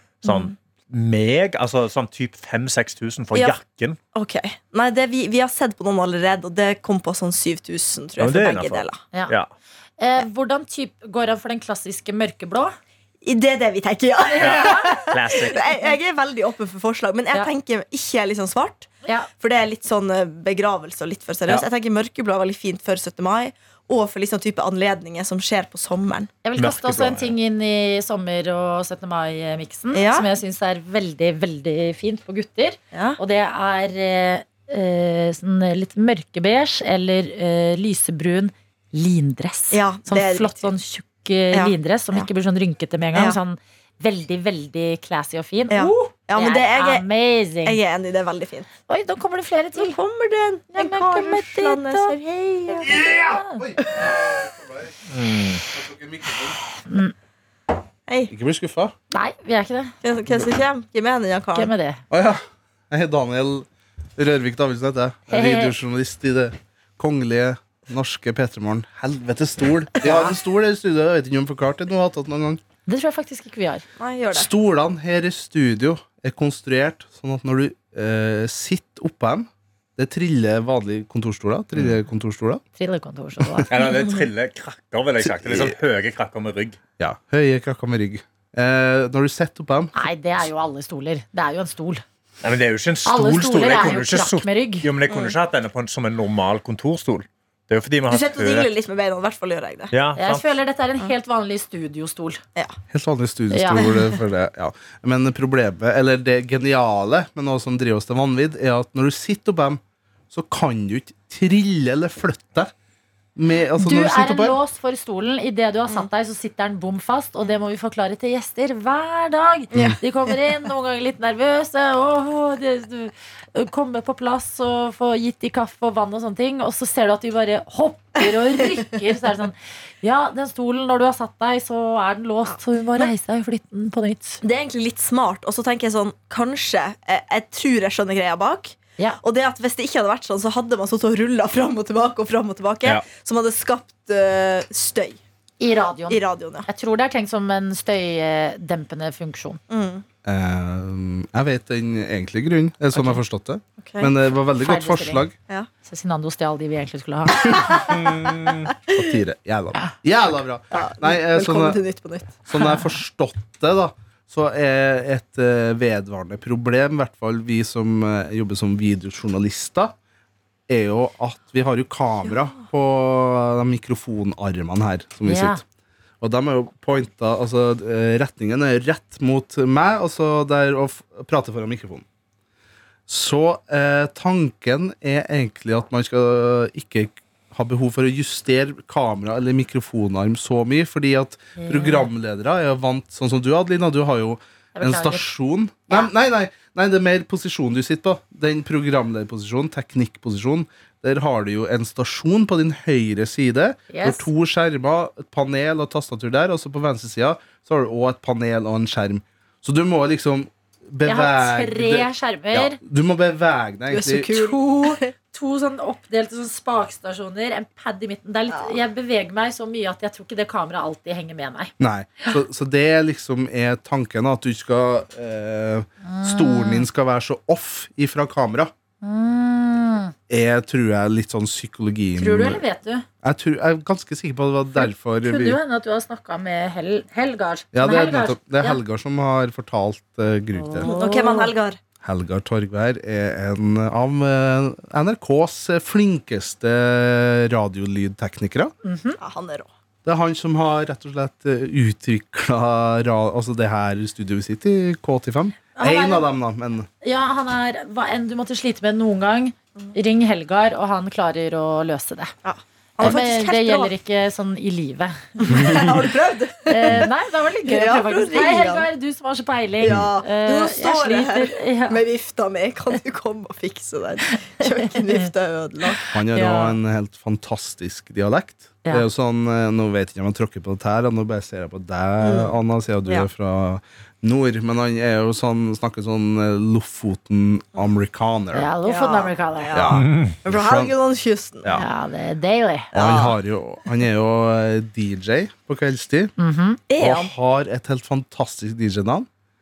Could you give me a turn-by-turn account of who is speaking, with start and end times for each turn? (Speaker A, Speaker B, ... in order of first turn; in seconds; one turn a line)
Speaker A: 0.2-4.0
Speaker B: 4.1-9.0
Speaker A: 8.2-9.5
Speaker C: 10.0-12.8
Speaker B: 13.2-26.3
Speaker C: 14.2-15.0
Speaker A: 14.4-15.6
Speaker C: 19.1-19.3
Speaker C: 26.4-47.8
Speaker A: 26.6-27.3
Speaker B: 29.9-30.3
Speaker B: 32.9-33.2
Speaker B: 39.7-40.7
Speaker B: 41.5-42.3
Speaker B: 45.7-47.0
Speaker B: 47.6-48.7
Speaker C: 48.9-50.0
Speaker B: 49.8-52.9
Speaker C: 50.7-52.1
Speaker C: 52.8-53.6
Speaker D: 52.8-55.0
Speaker A: 55.1-55.6
Speaker D: 55.6-56.6
Speaker C: 56.9-57.1
Speaker B: 58.1-58.3
Speaker D: 58.3-59.0
Speaker C: 59.1-60.0
Speaker B: 60.0-61.7
Speaker C: 61.5-62.0
Speaker D: 62.1-72.6
Speaker C: 65.3-65.7
Speaker B: 70.0-70.3
Speaker C: 72.9-73.8
Speaker B: 74.0-74.5
Speaker D: 74.3-82.6
Speaker C: 82.8-83.7
Speaker D: 83.4-83.7
Speaker A: 83.7-86.8
Speaker D: 85.2-85.8
Speaker D: 87.0-89.9
Speaker C: 90.0-92.0
Speaker A: 92.4-98.7
Speaker C: 93.0-94.9
Speaker B: 95.1-95.3
Speaker B: 98.1-99.9
Speaker A: 99.9-100.4
Speaker C: 100.2-102.4
Speaker D: 102.9-112.7
Speaker C: 103.5-103.8
Speaker B: 103.8-104.1
Speaker D: 113.4-114.6
Speaker C: 113.8-134.4
Speaker B: 119.7-120.3
Speaker B: 134.4-145.2
Speaker C: 145.6-149.6
Speaker B: 146.1-146.7
Speaker B: 149.7-150.0
Speaker D: 150.2-155.4
Speaker C: 152.9-153.2
Speaker B: 153.8-154.1
Speaker C: 154.6-155.3
Speaker C: 155.8-157.8
Speaker B: 157.4-159.0
Speaker A: 157.8-158.7
Speaker D: 158.9-161.8
Speaker B: 160.7-162.4
Speaker D: 162.5-169.9
Speaker C: 162.5-162.9
Speaker D: 170.7-175.6
Speaker C: 175.2-175.6
Speaker D: 176.2-182.1
Speaker D: 183.1-214.4
Speaker C: 191.6-192.1
Speaker C: 194.8-195.3
Speaker C: 203.9-204.3
Speaker C: 211.1-212.8
Speaker B: 213.9-215.1
Speaker C: 214.3-222.4
Speaker B: 218.5-218.8
Speaker D: 221.8-228.7
Speaker C: 226.0-226.9
Speaker C: 229.0-230.1
Speaker D: 230.3-232.6
Speaker C: 232.2-233.1
Speaker D: 233.2-235.6
Speaker C: 234.8-238.8
Speaker D: 237.7-240.9
Speaker C: 240.6-241.5
Speaker B: 240.8-241.8
Speaker D: 242.0-248.7
Speaker C: 248.8-249.2
Speaker B: 249.2-249.7
Speaker D: 250.1-256.9
Speaker C: 255.8-256.3
Speaker C: 257.0-262.3
Speaker B: 262.4-263.9
Speaker C: 263.0-265.8
Speaker B: 265.4-267.1
Speaker D: 265.5-266.0
Speaker C: 266.7-272.0
Speaker B: 267.6-268.9
Speaker B: 269.8-276.0
Speaker C: 274.6-275.3
Speaker C: 275.9-276.8
Speaker D: 276.1-288.7
Speaker B: 282.2-282.6
Speaker C: 288.5-289.9
Speaker B: 288.8-291.8
Speaker D: 289.7-290.9
Speaker A: 290.1-290.3
Speaker C: 291.7-292.9
Speaker B: 292.9-293.4
Speaker D: 292.9-296.3
Speaker C: 296.4-296.8
Speaker B: 296.9-297.3
Speaker D: 297.0-299.3